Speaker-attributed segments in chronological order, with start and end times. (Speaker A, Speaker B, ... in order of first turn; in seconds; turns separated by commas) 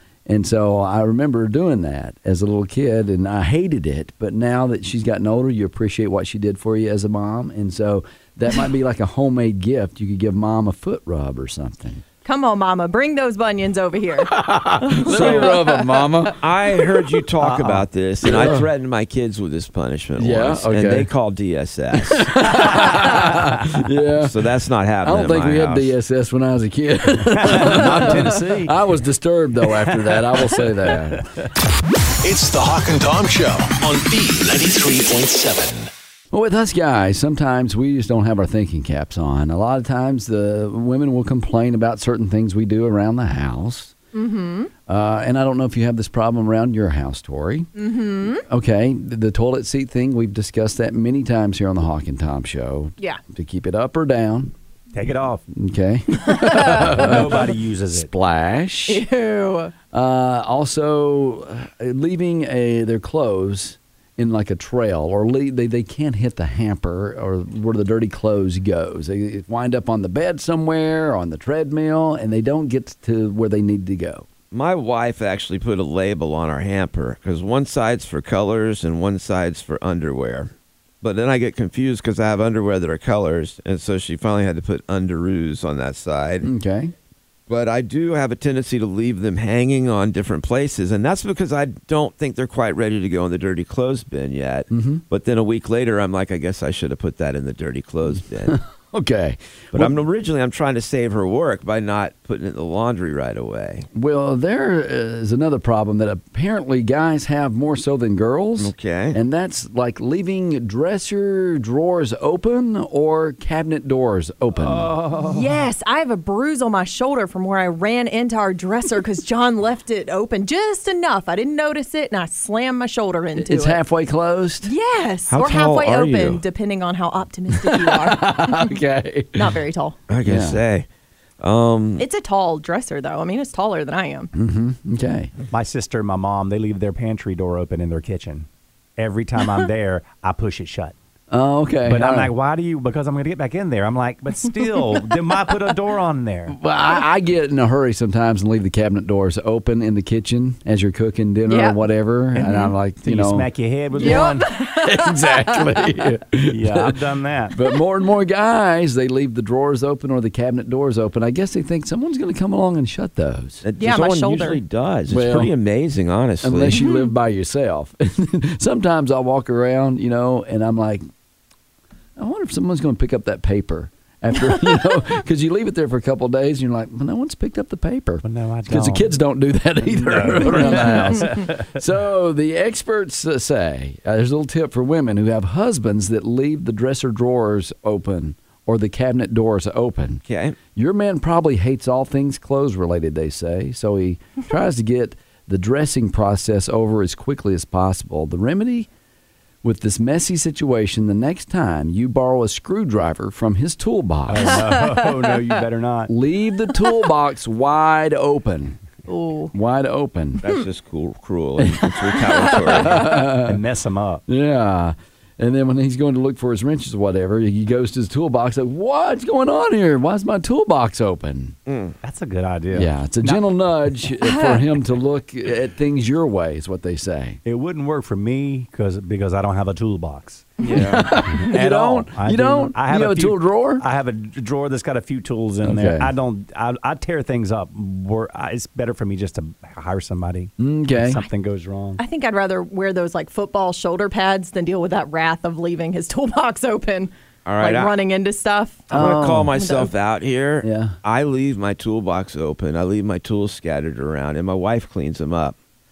Speaker A: 0.2-12.0, Speaker B: 12.2-15.9, Speaker A: 14.2-16.4, Speaker C: 15.0-15.6, Speaker C: 16.3-22.4, Speaker D: 17.4-17.8, Speaker A: 18.2-18.7, Speaker A: 20.2-21.1, Speaker A: 21.9-24.5, Speaker C: 24.2-25.9, Speaker A: 25.0-31.3, Speaker D: 27.3-28.7, Speaker D: 29.6-31.5, Speaker E: 32.2-35.9, Speaker A: 36.3-43.9, Speaker B: 44.1-44.7, Speaker A: 44.9-47.7, Speaker B: 47.8-48.4, Speaker A: 48.5-54.5, Speaker D: 54.9-55.4, Speaker A: 55.5-59.0, Speaker B: 56.3-56.8, Speaker D: 56.6-58.1, Speaker B: 58.9-59.7, Speaker A: 59.9-74.3, Speaker C: 74.5-80.5, Speaker C: 81.0-86.5, Speaker A: 86.4-86.9, Speaker C: 87.5-98.6, Speaker A: 94.7-95.0, Speaker A: 98.2-100.0, Speaker C: 99.7-103.9, Speaker A: 103.9-114.9, Speaker C: 108.6-109.2, Speaker D: 114.5-115.5, Speaker B: 115.2-123.8, Speaker A: 123.4-124.7, Speaker B: 124.6-128.7, Speaker C: 125.3-126.4, Speaker A: 127.6-129.6, Speaker B: 129.3-130.0, Speaker C: 130.1-130.9, Speaker A: 130.2-130.6, Speaker C: 131.4-132.0, Speaker B: 132.0-134.3, Speaker A: 134.3-135.3, Speaker D: 135.5-140.9, Speaker A: 141.3-142.3, Speaker D: 141.9-146.6, Speaker A: 146.5-157.0, Speaker B: 151.5-151.8, Speaker D: 152.3-154.5, Speaker B: 154.0-155.9, Speaker D: 156.5-157.6, Speaker A: 157.5-163.6, Speaker C: 163.6-166.8, Speaker B: 163.8-164.6, Speaker A: 165.1-165.5, Speaker A: 166.4-171.0, Speaker B: 166.7-167.1, Speaker A: 172.2-190.2, Speaker D: 178.2-179.1, Speaker D: 179.9-181.8, Speaker C: 190.2-190.6, Speaker A: 190.7-198.9, Speaker A: 199.6-204.7, Speaker D: 204.3-206.1, Speaker A: 206.1-208.8, Speaker B: 209.1-209.5, Speaker A: 209.5-210.4, Speaker C: 210.4-213.1, Speaker A: 211.6-213.6, Speaker D: 213.0-214.2, Speaker A: 214.3-221.6, Speaker C: 221.7-221.9, Speaker D: 222.0-223.5, Speaker A: 222.7-227.4, Speaker B: 224.3-224.6, Speaker D: 227.4-242.0, Speaker C: 230.6-231.1, Speaker A: 230.7-233.8, Speaker A: 235.6-236.1, Speaker A: 240.6-241.2, Speaker B: 242.0-249.9, Speaker C: 247.4-247.9, Speaker A: 248.9-249.5, Speaker C: 248.9-255.5, Speaker A: 250.6-250.9